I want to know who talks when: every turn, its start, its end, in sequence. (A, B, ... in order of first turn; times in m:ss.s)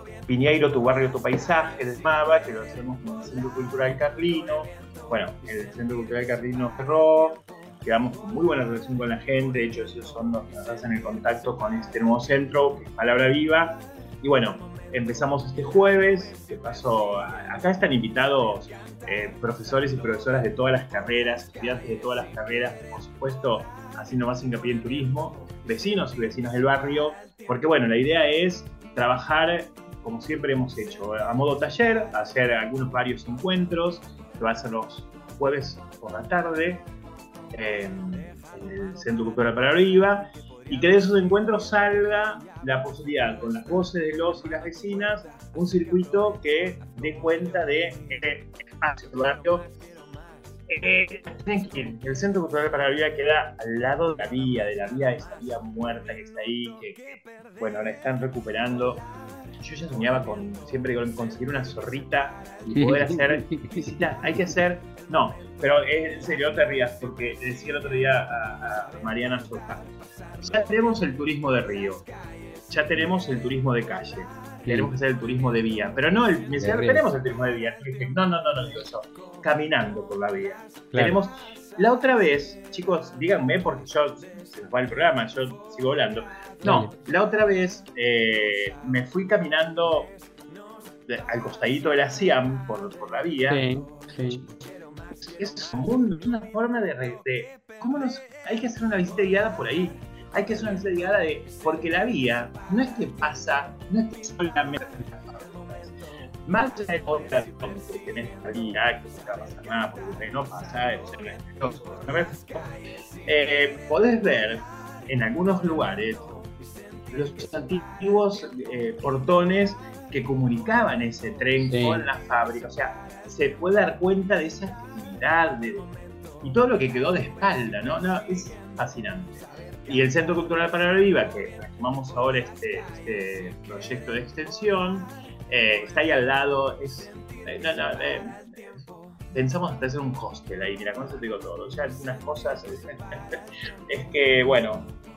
0:00.3-0:36.9 A
0:37.5-0:49.7 A
0:50.7-0:59.1 A
0:59.6-1:09.8 A
1:02.7-1:04.4 B
1:10.4-1:12.1 A
1:12.7-1:30.1 A
1:14.7-1:14.9 B
1:16.6-1:17.0 B
1:26.6-1:26.9 B
1:31.1-1:33.6 A
1:33.5-1:34.4 B
1:34.3-1:34.6 A
1:35.2-1:45.9 A
1:46.5-1:52.8 A
1:53.3-1:56.4 A
1:57.1-2:05.9 A
2:01.7-2:02.0 B
2:06.4-2:18.8 A
2:19.3-2:24.9 A